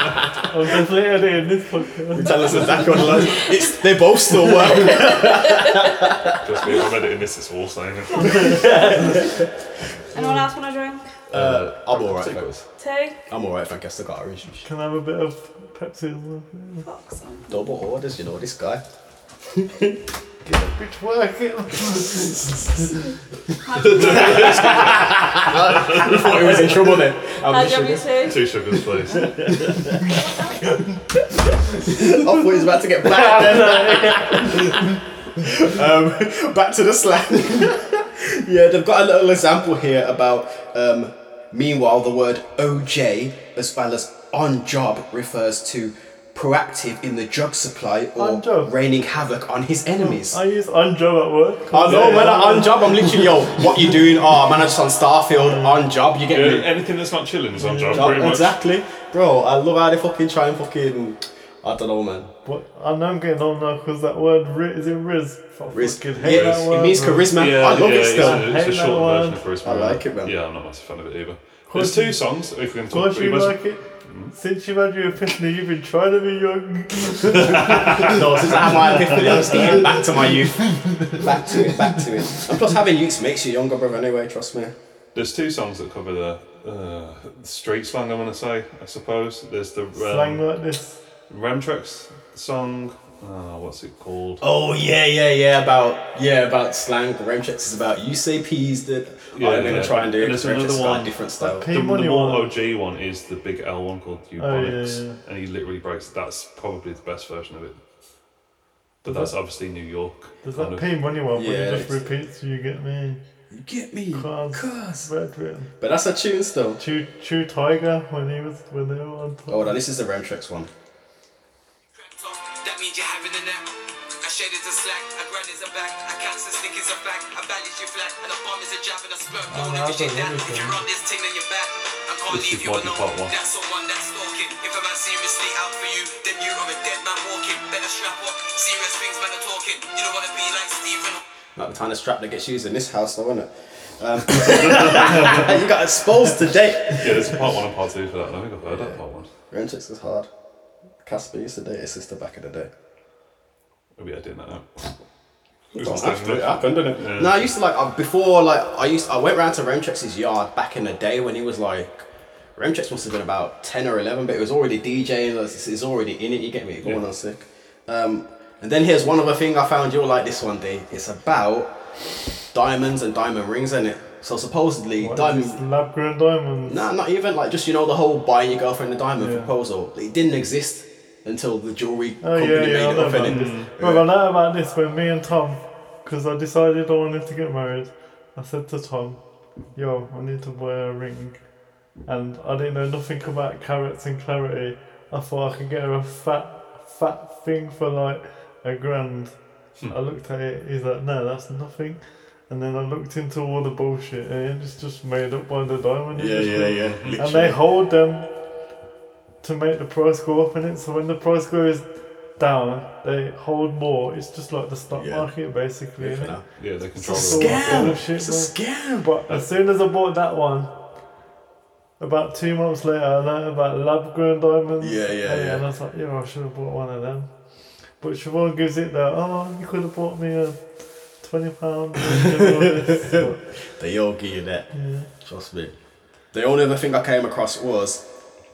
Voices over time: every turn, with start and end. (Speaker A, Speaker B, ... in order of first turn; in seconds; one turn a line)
Speaker A: 0.5-2.7
Speaker B: 2.1-6.4
Speaker C: 4.8-5.8
Speaker D: 6.4-8.6
Speaker C: 8.2-9.3
Speaker A: 8.3-9.2
Speaker B: 8.4-9.4
Speaker C: 10.1-11.1
Speaker A: 10.2-10.4
Speaker B: 11.3-12.5
Speaker D: 11.3-12.6
Speaker C: 12.8-13.2
Speaker B: 13.3-14.7
Speaker A: 14.7-16.9
Speaker C: 16.8-17.8
Speaker B: 17.5-18.8
Speaker B: 19.5-20.0
Speaker A: 20.5-22.6
Speaker C: 23.7-25.0
Speaker D: 23.8-24.8
Speaker B: 23.9-28.2
Speaker C: 27.5-28.4
Speaker D: 28.2-29.9
Speaker B: 29.1-30.1
Speaker B: 31.7-50.4
Speaker A: 33.2-34.8
Speaker A: 48.2-48.7
Speaker A: 50.0-53.3
Speaker B: 51.7-56.7
Speaker A: 55.4-55.8
Speaker D: 56.3-58.5
Speaker A: 57.6-58.3
Speaker B: 57.9-62.3
Speaker A: 62.5-69.4
Speaker B: 65.7-68.5
Speaker D: 66.2-66.6
Speaker D: 67.4-74.3
Speaker B: 69.6-70.4
Speaker A: 71.7-72.3
Speaker A: 72.9-78.1
Speaker D: 77.4-78.1
Speaker B: 77.7-84.8
Speaker A: 79.1-80.0
Speaker A: 80.8-81.2
Speaker D: 85.2-90.5
Speaker A: 90.0-91.0
Speaker D: 91.3-94.4
Speaker B: 94.4-101.7
Speaker D: 99.3-101.2
Speaker A: 101.4-102.5
Speaker D: 101.7-107.8
Speaker A: 104.4-105.2
Speaker D: 109.0-110.9
Speaker A: 109.0-109.3
Speaker A: 110.4-113.2
Speaker B: 111.3-112.0
Speaker B: 113.5-115.1
Speaker A: 114.1-115.7
Speaker B: 115.8-116.8
Speaker A: 116.8-119.7
Speaker B: 119.5-120.7
Speaker E: 122.0-141.2
Speaker A: 129.5-130.8
Speaker D: 132.3-133.3
Speaker B: 141.6-147.5
Speaker D: 144.6-145.5
Speaker D: 146.9-149.3
Speaker B: 148.6-150.3
Speaker B: 151.0-152.7
Speaker D: 154.0-154.9
Speaker B: 155.7-171.8
Speaker D: 155.8-157.5
Speaker B: 172.5-175.6
Speaker A: 175.0-176.8
Speaker B: 176.7-184.1
Speaker A: 179.2-179.5
Speaker A: 182.2-191.5
Speaker D: 183.2-183.7
Speaker A: 192.0-208.3
Speaker B: 206.1-207.6
Speaker D: 206.9-207.2
Speaker A: 209.4-216.4
Speaker B: 214.9-215.3
Speaker B: 216.0-219.1
Speaker D: 216.6-218.0
Speaker A: 217.0-220.7
Speaker A: 222.0-233.4
Speaker B: 224.8-225.6
Speaker B: 232.3-234.7
Speaker A: 234.7-235.1
Speaker B: 235.2-235.7
Speaker B: 236.3-238.0